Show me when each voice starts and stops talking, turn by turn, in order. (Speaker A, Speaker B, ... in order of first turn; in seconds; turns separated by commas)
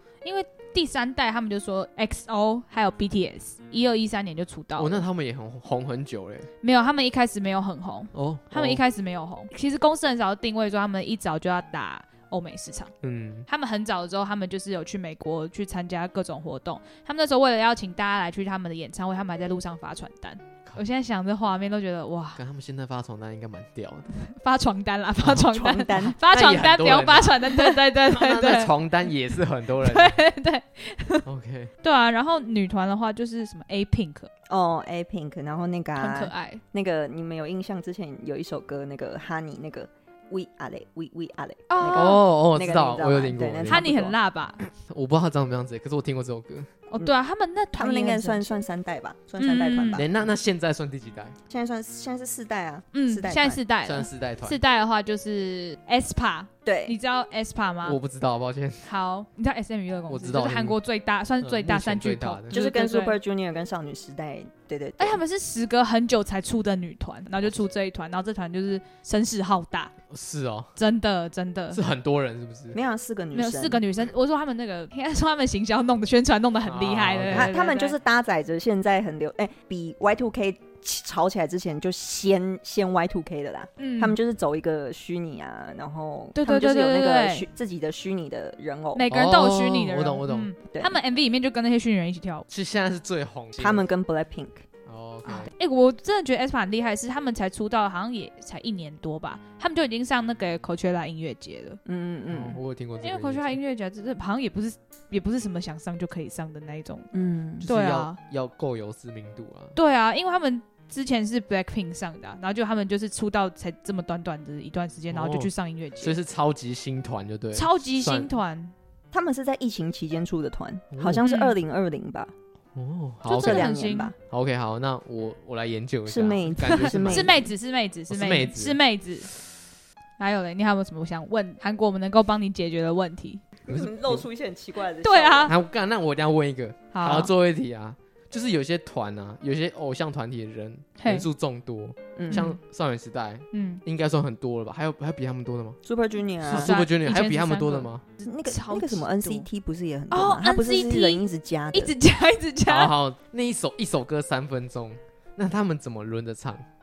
Speaker A: 0.2-5.0, Speaker B: 4.8-6.5, Speaker A: 6.6-12.9, Speaker B: 8.1-8.8, Speaker B: 13.0-13.5, Speaker A: 13.5-22.4, Speaker B: 22.4-24.2, Speaker A: 24.2-28.7, Speaker C: 25.4-26.2, Speaker B: 26.3-30.2, Speaker A: 29.8-31.2, Speaker B: 31.2-31.7, Speaker A: 31.8-34.3, Speaker C: 34.5-44.1, Speaker A: 36.0-36.6, Speaker A: 41.7-42.2, Speaker B: 41.9-43.9, Speaker A: 43.7-44.6, Speaker B: 44.7-46.7, Speaker A: 46.9-48.6, Speaker C: 47.7-50.3, Speaker A: 49.4-50.0, Speaker B: 50.0-51.4, Speaker C: 51.5-53.6, Speaker A: 52.9-58.0, Speaker B: 53.8-54.6, Speaker C: 56.6-57.0, Speaker B: 57.8-58.9, Speaker A: 58.8-63.2, Speaker B: 60.1-60.8, Speaker B: 61.4-62.6, Speaker C: 62.5-65.2, Speaker A: 65.0-69.9, Speaker B: 70.1-70.7, Speaker A: 70.8-71.8, Speaker B: 71.7-72.8, Speaker C: 72.7-73.8, Speaker A: 73.3-78.0, Speaker B: 76.7-77.5, Speaker C: 77.3-89.0, Speaker A: 83.8-84.2, Speaker A: 86.4-87.5, Speaker A: 88.9-92.5, Speaker B: 89.1-90.5, Speaker C: 90.7-91.0, Speaker B: 92.5-93.9, Speaker C: 93.6-94.7, Speaker B: 94.9-95.5, Speaker A: 95.2-101.8, Speaker C: 101.8-102.6, Speaker B: 102.3-103.6, Speaker A: 103.0-107.1, Speaker C: 107.1-107.7, Speaker B: 107.6-109.8, Speaker A: 107.7-108.2, Speaker A: 109.8-116.2, Speaker B: 115.1-118.3, Speaker A: 117.5-118.7, Speaker C: 119.1-122.3, Speaker B: 120.9-121.2, Speaker A: 121.2-121.6, Speaker B: 122.8-123.7, Speaker A: 123.2-124.1, Speaker C: 123.3-124.2, Speaker B: 124.3-127.5, Speaker C: 126.1-127.4, Speaker A: 126.7-129.3, Speaker B: 128.1-128.8, Speaker A: 130.2-133.4, Speaker C: 133.7-135.6, Speaker B: 133.7-134.2, Speaker A: 135.0-135.5, Speaker B: 135.5-145.8, Speaker A: 136.9-137.3, Speaker A: 141.0-141.3, Speaker C: 142.2-142.4, Speaker A: 142.3-142.6, Speaker A: 143.5-143.8, Speaker C: 145.8-146.8, Speaker B: 146.5-148.0, Speaker A: 146.5-149.5, Speaker C: 148.2-151.9, Speaker A: 150.1-151.2, Speaker A: 151.7-152.9, Speaker B: 152.7-156.7